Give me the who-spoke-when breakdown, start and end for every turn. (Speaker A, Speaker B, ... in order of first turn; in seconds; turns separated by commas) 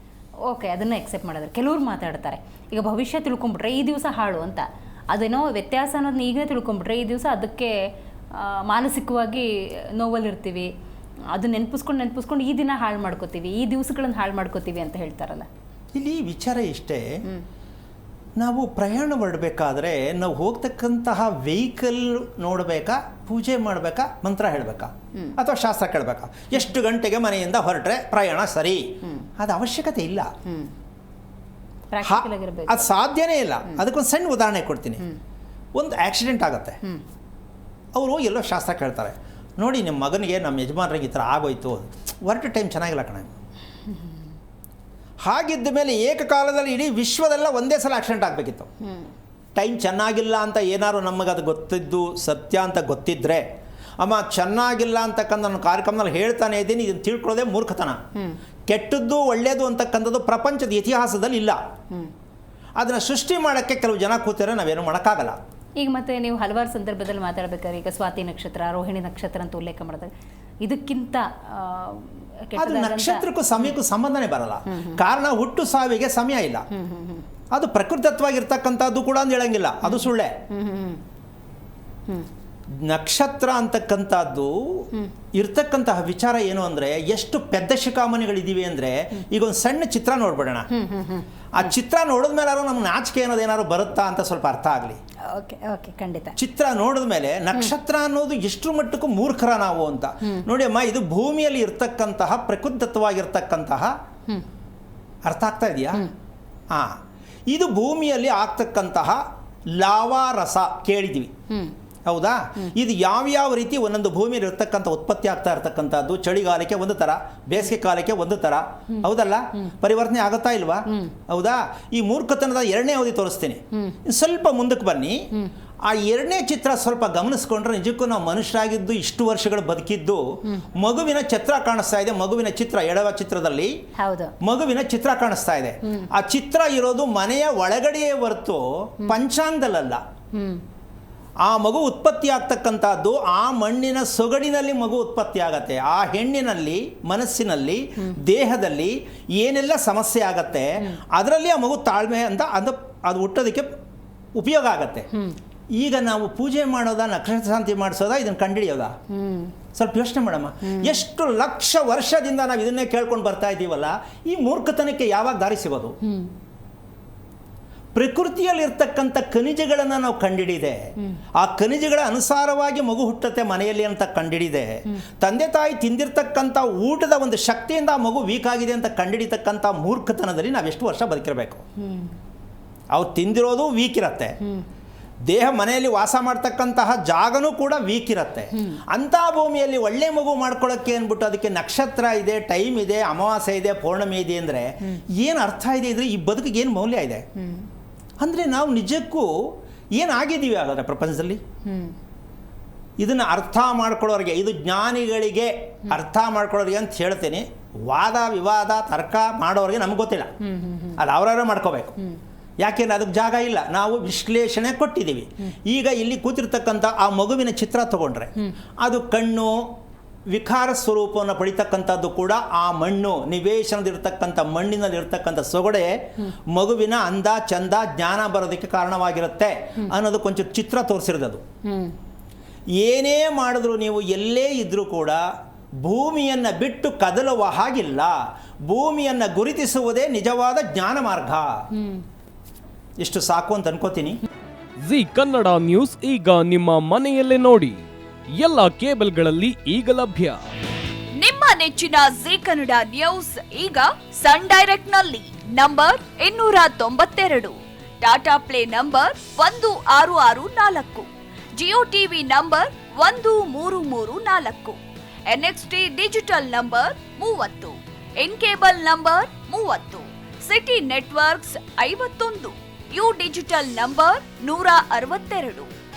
Speaker A: 0.5-10.7, Speaker A: 11.3-15.5, Speaker B: 15.9-17.1, Speaker B: 18.4-30.3, Speaker A: 31.9-32.9, Speaker B: 32.0-35.0, Speaker B: 35.8-36.8, Speaker B: 38.0-43.3, Speaker B: 45.2-48.7, Speaker B: 49.6-53.4, Speaker B: 54.0-58.0, Speaker B: 58.7-61.6, Speaker B: 62.8-65.4, Speaker A: 65.8-73.8, Speaker B: 72.6-76.7, Speaker A: 74.7-75.0, Speaker A: 76.7-77.2, Speaker B: 77.5-80.3, Speaker A: 79.9-81.0, Speaker B: 82.8-84.8, Speaker B: 85.3-90.7, Speaker A: 90.7-91.3, Speaker B: 91.5-95.0, Speaker A: 95.3-96.4, Speaker B: 96.4-103.9, Speaker B: 105.2-106.1, Speaker B: 107.5-109.2, Speaker B: 109.8-111.3, Speaker B: 112.1-125.2, Speaker B: 125.9-130.2, Speaker B: 130.8-133.7, Speaker A: 134.0-134.3, Speaker B: 134.4-140.0, Speaker A: 140.3-140.6, Speaker B: 141.5-153.7, Speaker B: 154.4-155.1, Speaker B: 155.8-158.9, Speaker A: 159.1-159.5, Speaker B: 159.8-166.0, Speaker A: 160.7-161.0, Speaker A: 166.1-166.3, Speaker B: 167.9-181.6, Speaker A: 181.8-182.1, Speaker B: 182.9-184.4, Speaker B: 185.3-197.2, Speaker A: 197.4-197.7, Speaker B: 198.2-201.4, Speaker A: 201.7-201.9, Speaker B: 203.0-210.3, Speaker A: 210.5-211.0, Speaker B: 211.0-212.0, Speaker B: 212.6-219.6, Speaker B: 220.3-225.9, Speaker B: 226.5-231.4, Speaker A: 231.7-231.9, Speaker B: 232.8-235.2, Speaker B: 235.8-238.1, Speaker B: 238.7-241.5, Speaker A: 241.8-242.0, Speaker B: 243.0-244.2, Speaker C: 244.8-247.8, Speaker C: 248.4-250.4, Speaker D: 251.2-275.7